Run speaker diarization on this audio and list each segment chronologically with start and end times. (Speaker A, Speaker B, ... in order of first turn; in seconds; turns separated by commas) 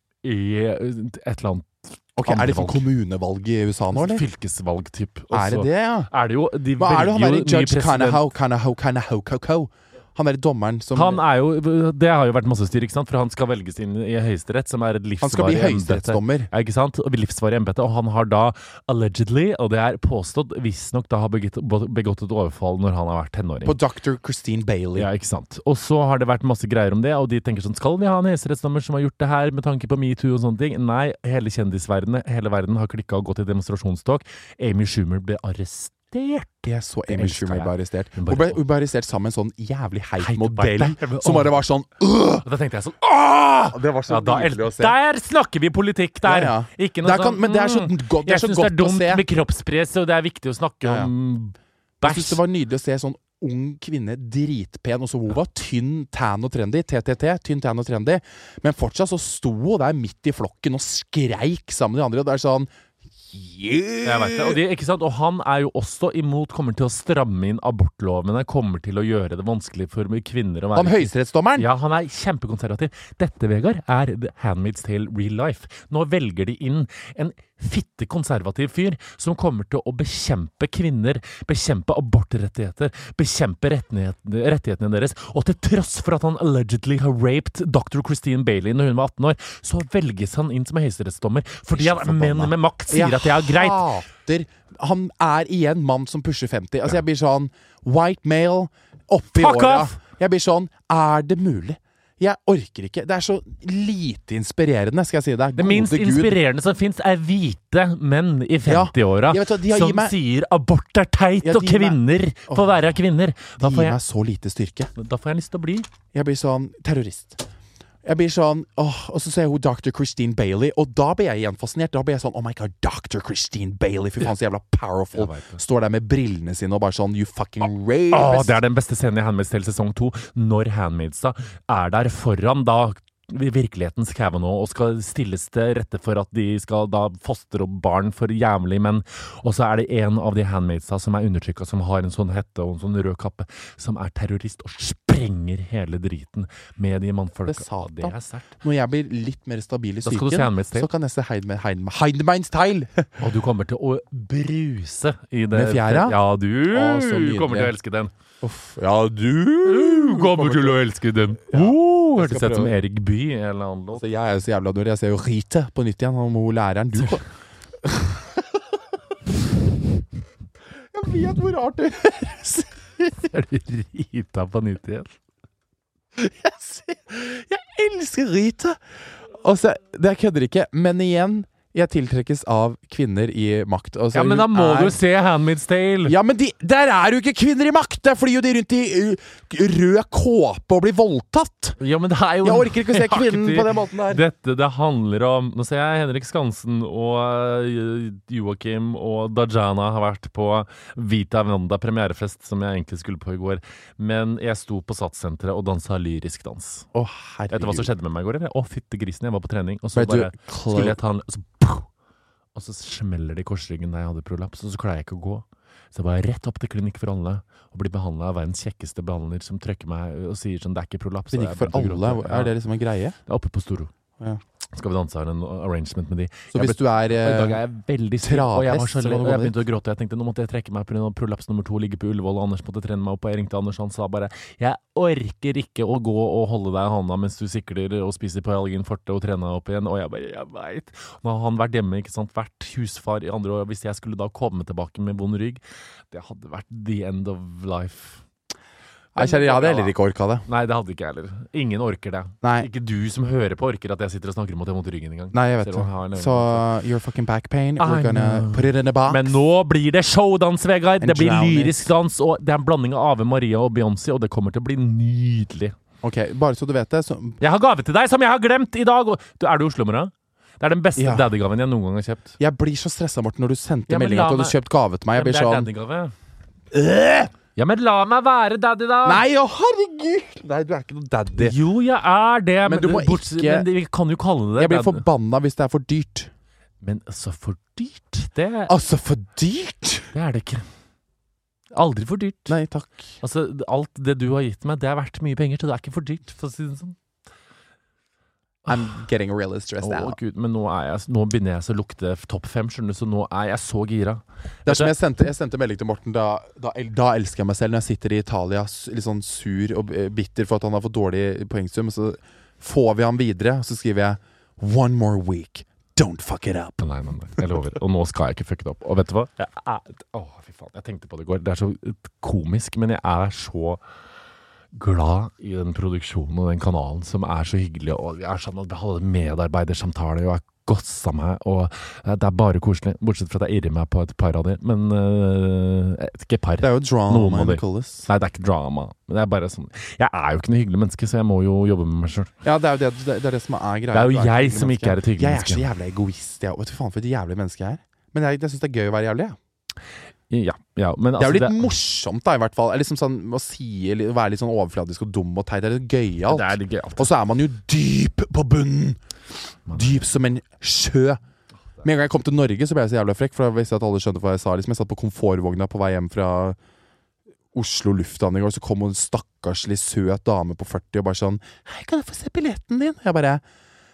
Speaker A: 0.2-2.9, Speaker B: 2.2-4.2, Speaker A: 3.9-8.3, Speaker B: 5.3-6.1, Speaker B: 6.8-11.2, Speaker A: 10.9-23.8, Speaker B: 15.2-16.5, Speaker B: 23.6-25.1, Speaker A: 25.0-38.6, Speaker B: 36.7-42.5, Speaker A: 40.2-41.6, Speaker A: 42.4-52.4, Speaker B: 43.7-45.0, Speaker B: 46.2-49.2, Speaker B: 50.8-51.1, Speaker B: 52.0-62.7, Speaker B: 63.3-64.6, Speaker A: 64.0-94.0, Speaker B: 70.8-71.7, Speaker B: 91.7-106.4, Speaker A: 99.3-100.0, Speaker A: 105.6-114.0, Speaker B: 108.7-110.2, Speaker B: 111.4-112.8, Speaker B: 113.6-114.9, Speaker A: 115.0-115.9, Speaker B: 116.1-117.4, Speaker B: 118.0-128.6, Speaker A: 125.2-125.6, Speaker A: 128.1-148.6, Speaker B: 147.5-153.2, Speaker A: 150.1-150.9, Speaker A: 153.2-158.1, Speaker B: 155.5-156.2, Speaker B: 156.7-157.7, Speaker B: 158.4-160.8, Speaker A: 159.7-164.0, Speaker B: 161.5-162.8, Speaker B: 163.9-167.2, Speaker B: 167.8-168.6, Speaker B: 170.9-173.3, Speaker A: 173.2-175.1, Speaker B: 176.2-178.8, Speaker B: 179.3-185.0, Speaker A: 184.1-186.2, Speaker B: 186.1-191.8, Speaker A: 191.8-206.9, Speaker B: 192.4-194.2, Speaker B: 206.9-207.9, Speaker A: 207.5-211.9, Speaker B: 209.9-211.0, Speaker A: 212.6-222.6, Speaker B: 221.3-223.2, Speaker A: 223.3-223.9, Speaker A: 224.7-248.2, Speaker B: 226.5-227.6, Speaker B: 228.2-229.6, Speaker B: 249.2-250.4, Speaker A: 249.2-249.9, Speaker A: 250.5-256.7, Speaker B: 252.4-252.7, Speaker B: 255.3-259.4, Speaker A: 257.8-265.8, Speaker B: 261.0-261.9, Speaker B: 266.0-267.4, Speaker A: 267.4-272.4, Speaker B: 271.0-271.3, Speaker B: 272.4-275.7, Speaker A: 273.9-274.6, Speaker A: 275.1-276.1, Speaker B: 276.7-277.3, Speaker A: 277.6-279.2, Speaker B: 279.0-281.6, Speaker A: 281.4-285.1, Speaker B: 282.6-283.7, Speaker B: 284.6-286.3, Speaker A: 286.8-288.7, Speaker B: 288.7-290.1, Speaker A: 290.1-290.7, Speaker A: 291.7-292.6, Speaker B: 292.5-293.1, Speaker A: 293.2-297.0, Speaker B: 298.7-300.2, Speaker A: 299.8-305.0, Speaker B: 304.7-316.8, Speaker A: 316.8-323.8, Speaker A: 324.7-342.3, Speaker B: 336.6-338.1, Speaker B: 342.4-349.4, Speaker A: 343.9-345.7, Speaker A: 350.3-351.7, Speaker B: 351.2-359.0, Speaker A: 356.3-357.1, Speaker A: 359.7-360.0, Speaker B: 359.7-361.2, Speaker B: 361.8-366.6, Speaker B: 367.5-373.4